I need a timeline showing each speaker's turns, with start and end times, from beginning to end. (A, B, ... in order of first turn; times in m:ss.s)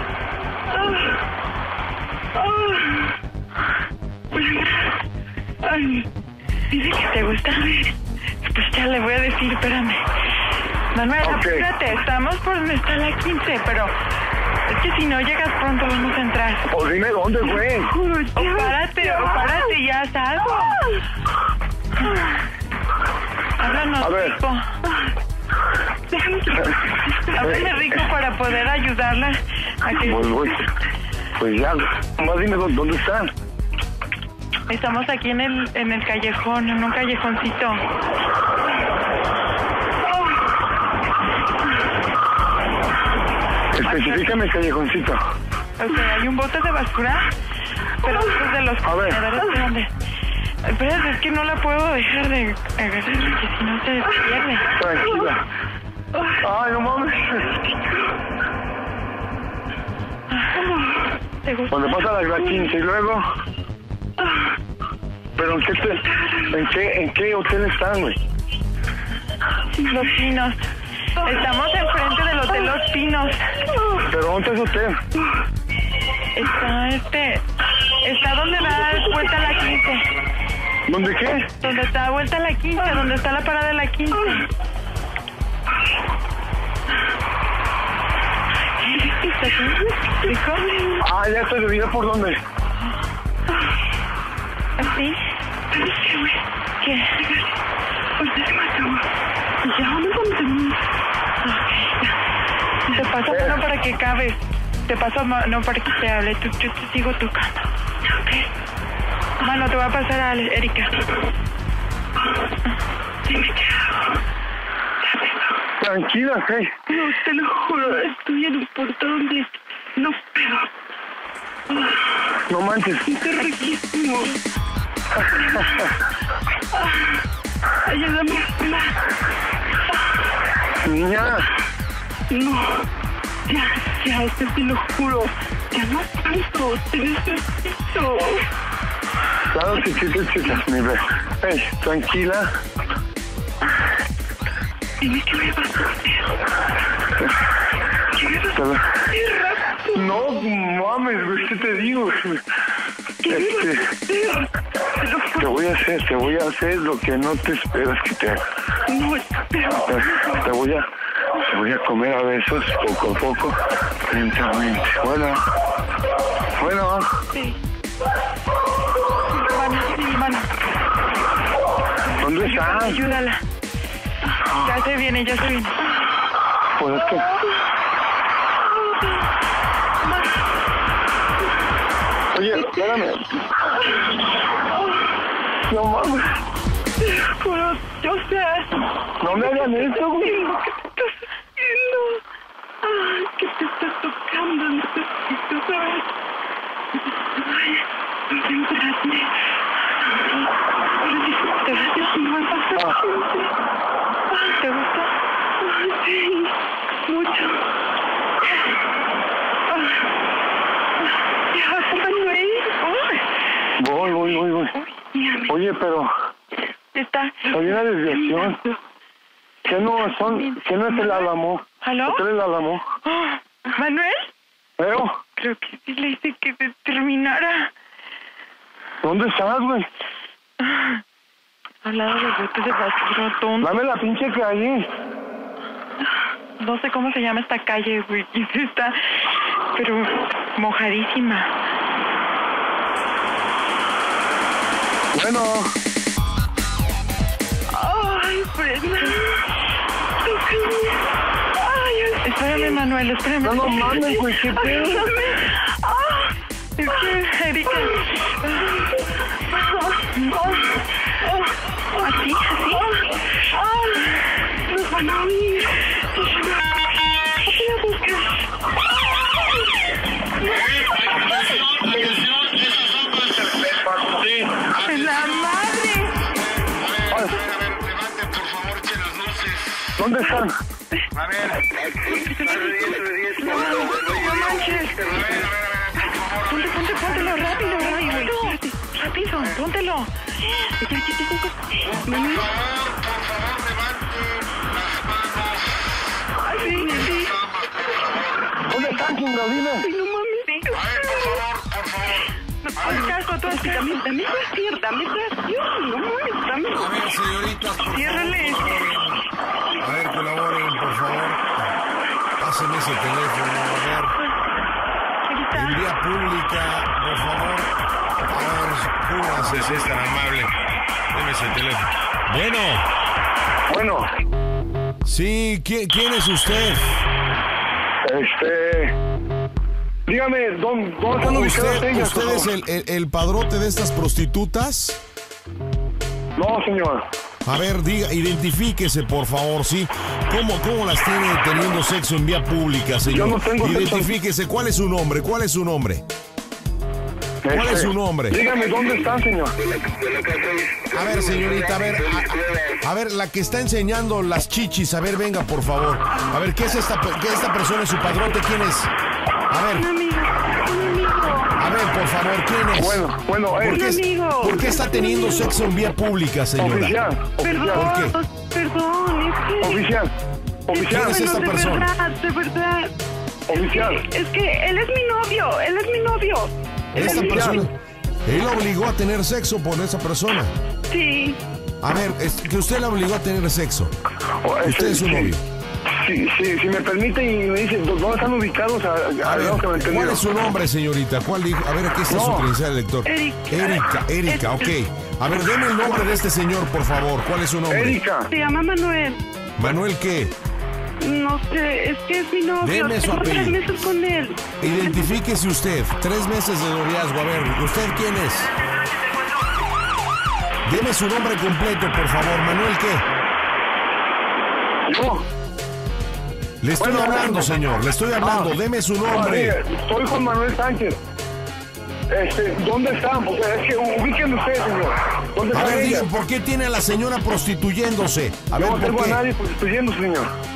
0:00.8-0:01.1 A
0:02.4-0:03.1 A
0:04.4-0:04.9 A
0:05.6-0:06.1 A
0:06.7-0:07.9 A
0:07.0-0:07.7 B
0:08.4-0:10.0 B
0:10.9-0:13.9 B
0:11.2-0:11.6 C
0:14.7-0:16.6 B
0:16.7-0:17.9 C
0:17.4-0:19.7 A
0:18.4-0:20.8 B
0:23.6-0:24.6 B
0:24.0-0:24.4 C
0:26.1-0:27.6 A
0:27.4-0:30.3 B
0:27.4-0:27.8 C
0:30.0-0:30.6 C
0:31.4-0:33.3 C
0:34.7-0:37.8 B
0:43.7-0:45.2 C
0:43.8-0:44.2 B
0:45.8-0:47.3 B
0:48.0-0:49.9 B
0:48.8-0:49.2 C
0:50.7-0:54.7 B
0:54.7-0:55.4 C
0:56.4-0:57.5 C
1:00.7-1:01.0 A
1:01.4-1:01.9 B
1:01.7-1:03.2 C
1:05.4-1:08.2 C
1:09.9-1:10.6 B
1:11.2-1:13.4 B
1:13.7-1:14.0 A
1:14.0-1:15.0 C
1:16.4-1:17.4 B
1:18.0-1:20.0 B
1:20.9-1:21.5 C
1:21.6-1:24.5 B
1:28.9-1:31.0 A
1:29.4-1:30.7 B
1:31.0-1:32.4 C
1:34.8-1:35.2 B
1:35.7-1:36.4 A
1:36.8-1:37.2 B
1:38.2-1:39.0 A
1:39.6-1:40.8 A
1:41.4-1:42.0 B
1:42.9-1:47.6 B
1:43.3-1:43.6 C
1:48.1-1:48.5 A
1:49.4-1:50.9 B
1:53.3-1:53.8 A
1:55.8-1:56.8 C
1:56.9-2:00.7 A
2:02.5-2:03.2 C
2:03.1-2:04.4 A
2:05.2-2:05.9 C
2:05.4-2:05.8 A
2:06.8-2:07.2 A
2:07.8-2:09.0 A
2:10.8-2:11.5 C
2:12.3-2:12.9 A
2:13.5-2:18.4 A
2:19.5-2:22.5 C
2:25.0-2:26.3 A
2:28.2-2:28.5 A
2:28.5-2:28.8 C
2:29.1-2:30.1 A
2:29.9-2:32.4 C
2:33.2-2:35.6 A
2:33.3-2:33.9 C
2:35.4-2:38.4 C
2:38.9-2:40.4 A
2:39.9-2:40.9 C
2:41.4-2:45.4 C
2:46.6-2:47.1 C
2:49.4-2:50.5 B
2:52.2-2:53.0 C
2:52.4-2:53.4 B
2:54.6-2:55.8 B
2:56.8-2:57.2 C
3:02.3-3:03.3 C
3:05.7-3:06.3 C
3:07.0-3:08.7 A
3:09.2-3:10.4 C
3:09.3-3:12.2 A
3:12.8-3:16.1 A
3:17.4-3:19.3 A
3:20.8-3:23.5 A
3:21.2-3:22.5 B
3:22.8-3:23.0 C
3:24.5-3:25.1 B
3:25.6-3:26.5 A
3:27.1-3:27.6 A
3:31.5-3:32.7 A
3:32.8-3:33.2 B
3:33.8-3:34.7 C
3:35.1-3:35.5 A
3:35.5-3:36.1 C
3:37.0-3:37.5 B
3:37.5-3:38.6 C
3:37.5-3:38.8 A
3:39.7-3:42.8 C
3:41.8-3:42.2 B
3:43.1-3:44.3 B
3:44.8-3:45.2 C
3:45.4-3:47.7 B
3:49.0-3:49.9 C
3:50.6-3:51.0 B
3:51.8-3:53.7 B
3:53.6-3:54.9 C
3:56.6-3:59.0 B
3:59.7-4:01.5 B
4:05.1-4:05.7 C
4:07.7-4:09.4 A
4:10.2-4:11.0 A
4:11.6-4:12.8 A
4:12.2-4:14.1 B
4:13.4-4:15.1 C
4:13.9-4:16.3 A
4:16.8-4:18.0 B
4:18.6-4:18.9 A
4:20.2-4:20.6 A
4:22.0-4:22.8 B
4:22.7-4:24.2 A
4:24.7-4:26.6 A
4:27.4-4:28.3 A
4:29.2-4:29.5 A
4:33.9-4:34.5 C
4:34.8-4:36.1 B
4:37.1-4:37.4 C
4:40.0-4:40.6 C
4:42.1-4:44.4 A
4:43.6-4:45.1 B
4:46.4-4:50.1 B
4:47.2-4:48.8 A
4:50.7-4:52.5 A
4:56.5-4:57.4 A
4:58.7-4:59.9 C
4:59.8-5:01.5 A
5:02.7-5:04.0 B
5:02.8-5:06.9 A
5:06.7-5:09.2 D
5:08.0-5:08.7 B
5:09.8-5:11.7 D
5:12.4-5:14.2 D
5:15.3-5:15.8 B
5:15.5-5:17.7 D
5:18.3-5:20.5 D
5:21.1-5:22.9 D
5:23.7-5:24.1 C
5:25.0-5:27.0 D
5:28.0-5:29.0 C
5:30.1-5:32.5 C
5:31.2-5:35.0 D
5:36.4-5:37.0 C
5:37.4-5:46.0 D
5:43.1-5:44.1 C
5:47.4-5:49.6 C
5:47.5-5:48.4 D
5:50.9-5:58.9 D
5:59.5-5:59.9 D
5:59.7-6:01.6 A
6:01.6-6:03.0 D
6:02.8-6:03.9 C
6:03.6-6:07.0 D
6:03.6-6:05.6 A
6:06.6-6:07.9 C
6:07.4-6:09.9 A
6:07.7-6:08.2 D
6:09.6-6:10.1 C
6:10.7-6:11.2 C
6:10.7-6:11.9 D
6:10.7-6:12.9 A
6:13.5-6:14.0 C
6:13.5-6:17.6 A
6:16.9-6:17.7 D
6:17.0-6:17.6 C
6:18.2-6:20.5 D
6:20.9-6:21.4 A
6:21.8-6:23.9 D
6:24.4-6:25.3 C
6:24.6-6:25.4 D
6:25.9-6:30.2 C
6:29.2-6:38.0 D
6:32.1-6:32.5 C
6:33.1-6:34.7 A
6:37.7-6:38.3 C
6:38.3-6:39.2 A
6:39.6-6:40.3 D
6:41.0-6:45.0 A
6:42.6-6:43.6 D
6:44.6-6:48.5 D
6:50.7-6:53.0 D
6:54.9-6:55.2 C
6:56.6-6:59.6 D
6:56.8-6:57.5 C
6:58.2-6:58.5 C
6:59.1-7:01.0 C
7:02.1-7:06.1 C
7:05.5-7:09.2 D
7:08.6-7:10.3 C